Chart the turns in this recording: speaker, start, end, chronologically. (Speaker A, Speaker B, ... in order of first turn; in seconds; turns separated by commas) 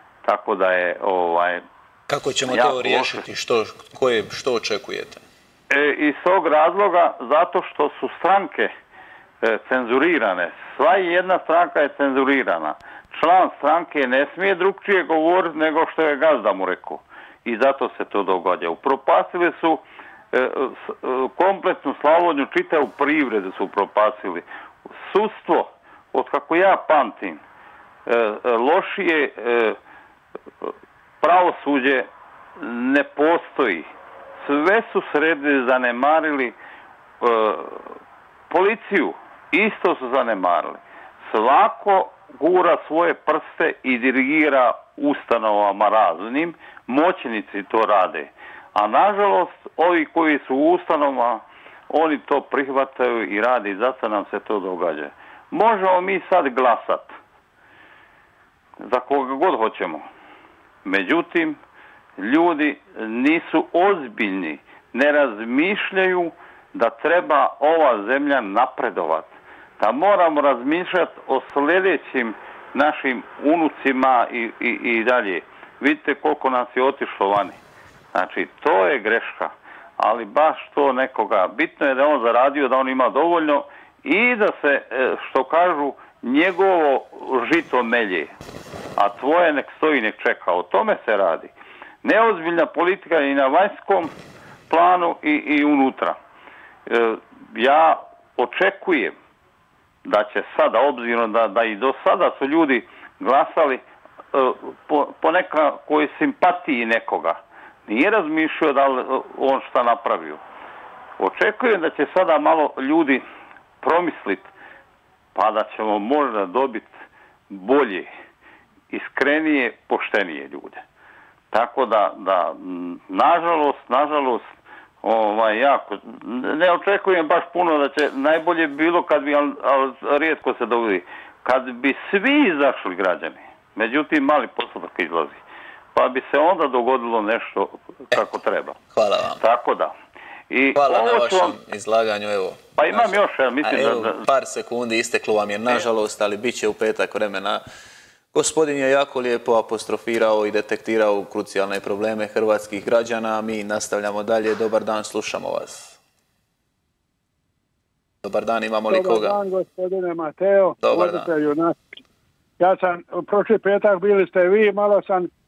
Speaker A: 0.2-1.6, Speaker B: 2.1-5.2, Speaker A: 2.5-3.2, Speaker A: 5.7-8.7, Speaker A: 9.4-27.4, Speaker A: 28.1-29.8, Speaker A: 31.2-33.9, Speaker A: 34.4-36.6, Speaker A: 37.2-37.9, Speaker A: 38.5-57.1, Speaker A: 58.9-60.0, Speaker A: 60.9-61.6, Speaker A: 62.2-77.6, Speaker A: 78.1-88.3, Speaker A: 89.0-91.5, Speaker A: 92.0-94.1, Speaker A: 94.7-96.2, Speaker A: 96.9-99.2, Speaker A: 100.0-103.8, Speaker A: 104.3-110.4, Speaker A: 111.2-113.2, Speaker A: 113.8-114.5, Speaker A: 115.3-116.9, Speaker A: 117.5-118.1, Speaker A: 118.9-120.8, Speaker A: 121.5-124.5, Speaker A: 125.0-135.4, Speaker A: 135.9-138.8, Speaker B: 138.9-139.4, Speaker A: 139.4-139.9, Speaker A: 140.5-141.6, Speaker B: 140.8-147.6, Speaker A: 142.8-144.2, Speaker B: 148.3-156.0, Speaker B: 158.2-159.4, Speaker C: 158.9-161.8, Speaker B: 160.8-161.3, Speaker C: 162.6-165.3